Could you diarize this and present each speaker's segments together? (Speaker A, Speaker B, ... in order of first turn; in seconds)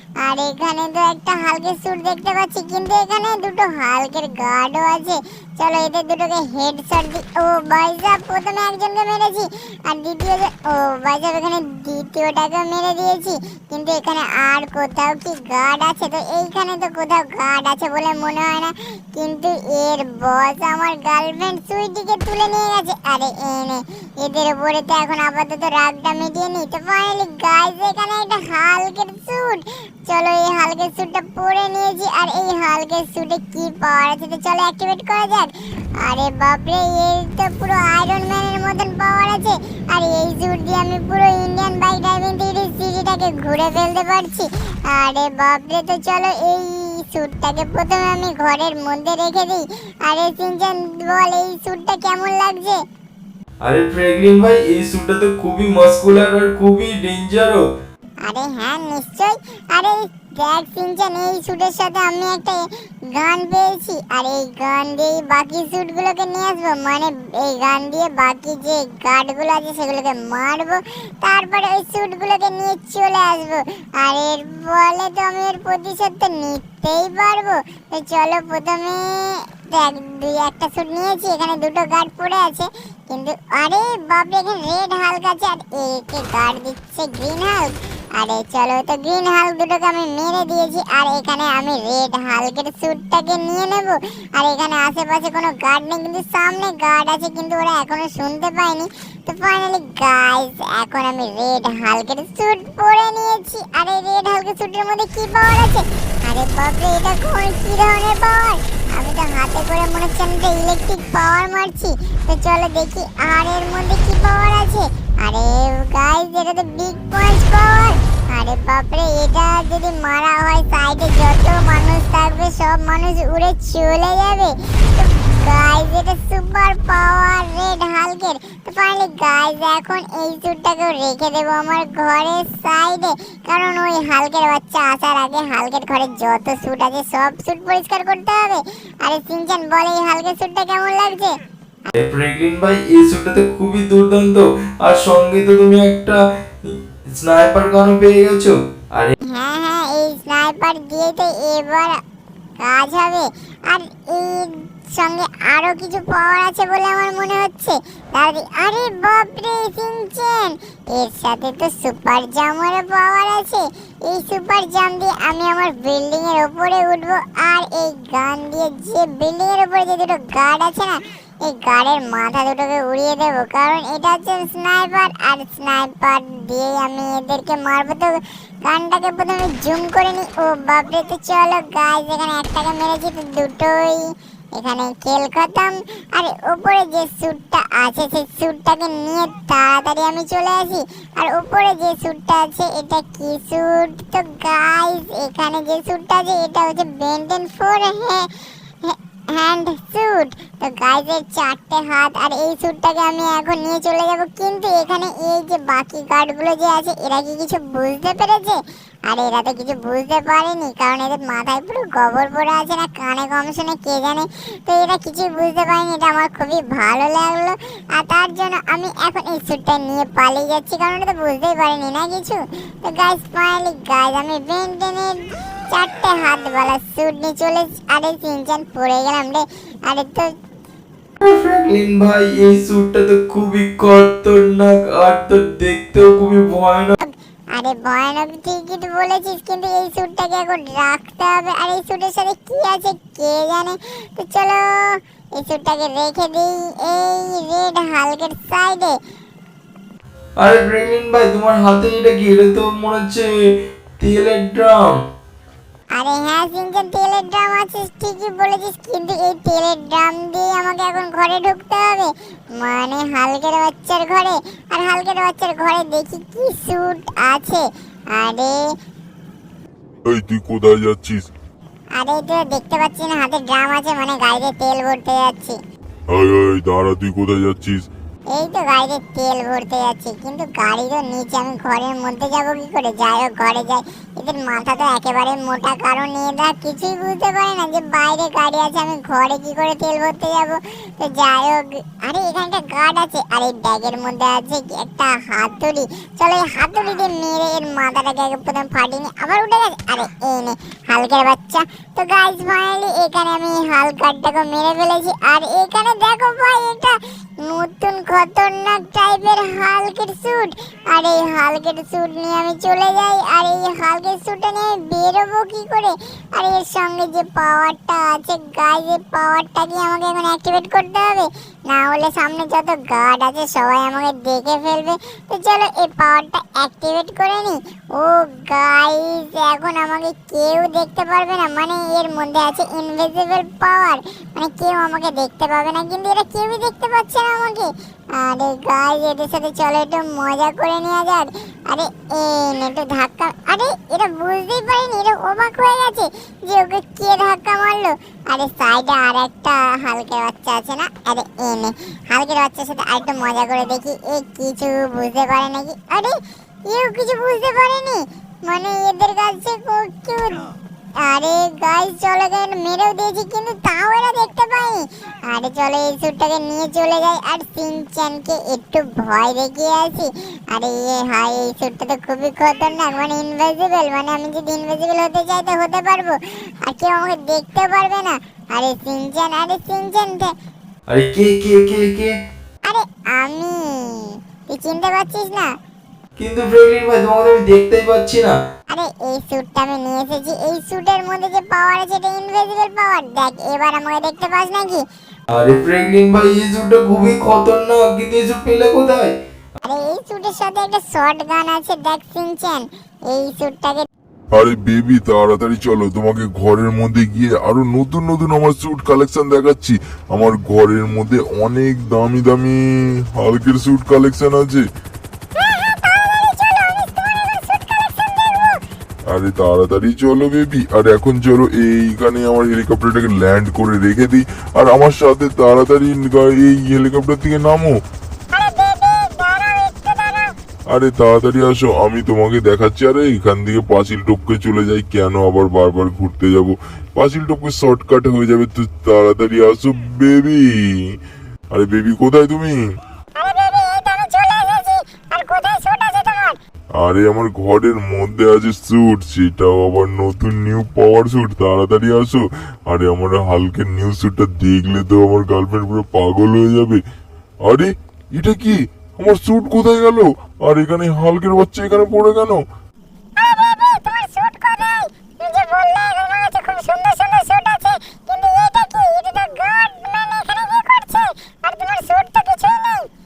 Speaker A: 0.2-52.8, 58.2-141.3, 149.2-152.0, 152.6-184.0, 184.6-198.3, 198.8-230.3, 237.0-248.9, 255.9-268.7, 271.9-275.6, 278.3-356.1, 356.7-380.3, 382.6-385.5, 388.7-394.8, 399.6-403.9, 415.4-418.6, 428.3-430.3, 443.2-446.4, 463.2-472.9
Speaker B: 53.6-57.6, 142.0-149.2, 231.2-237.0, 250.4-253.3, 254.0-255.0, 380.9-382.1, 386.2-388.4, 395.3-399.1
Speaker C: 270.1-271.3, 276.1-277.9, 404.3-414.6, 419.1-427.8, 430.7-441.0, 441.5-442.6, 446.8-456.8, 457.5-462.4